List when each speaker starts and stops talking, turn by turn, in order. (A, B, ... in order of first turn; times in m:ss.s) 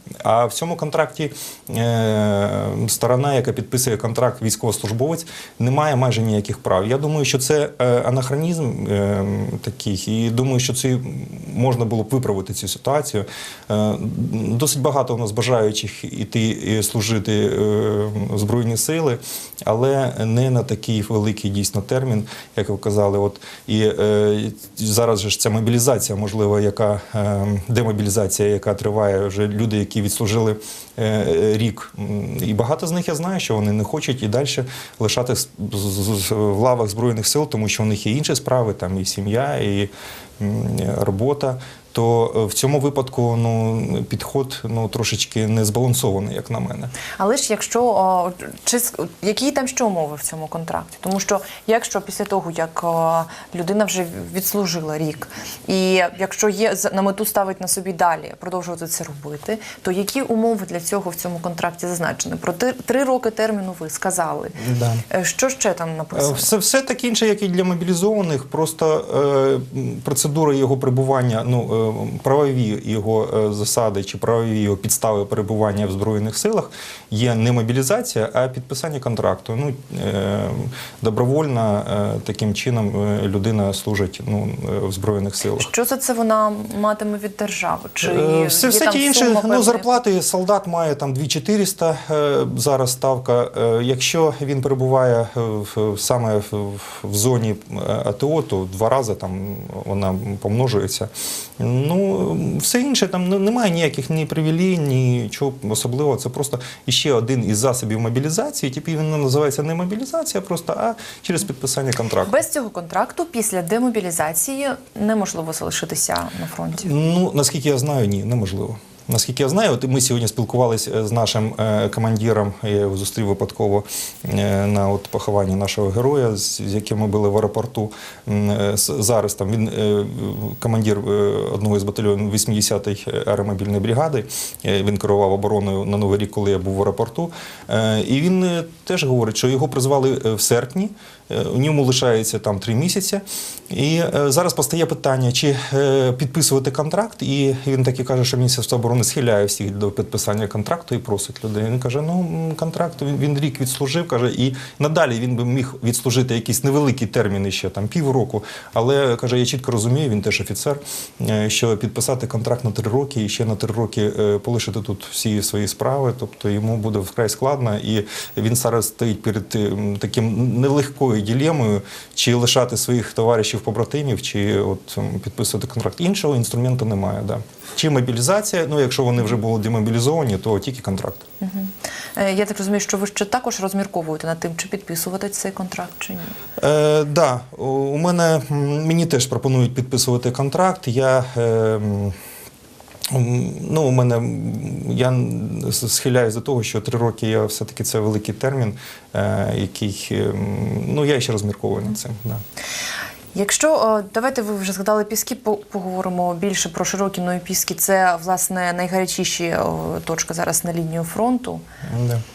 0:00.2-0:46.9 A
0:47.2-1:06.5 B
1:04.6-1:05.0 A
1:06.1-1:25.7 A
1:25.6-1:29.9 B
1:28.0-1:52.3 A
1:52.2-1:56.9 B
1:56.8-3:01.2 A
3:01.4-3:06.4 B
3:06.6-3:12.2 A
3:13.1-3:22.4 A
3:23.3-3:31.6 B
3:31.9-3:32.2 A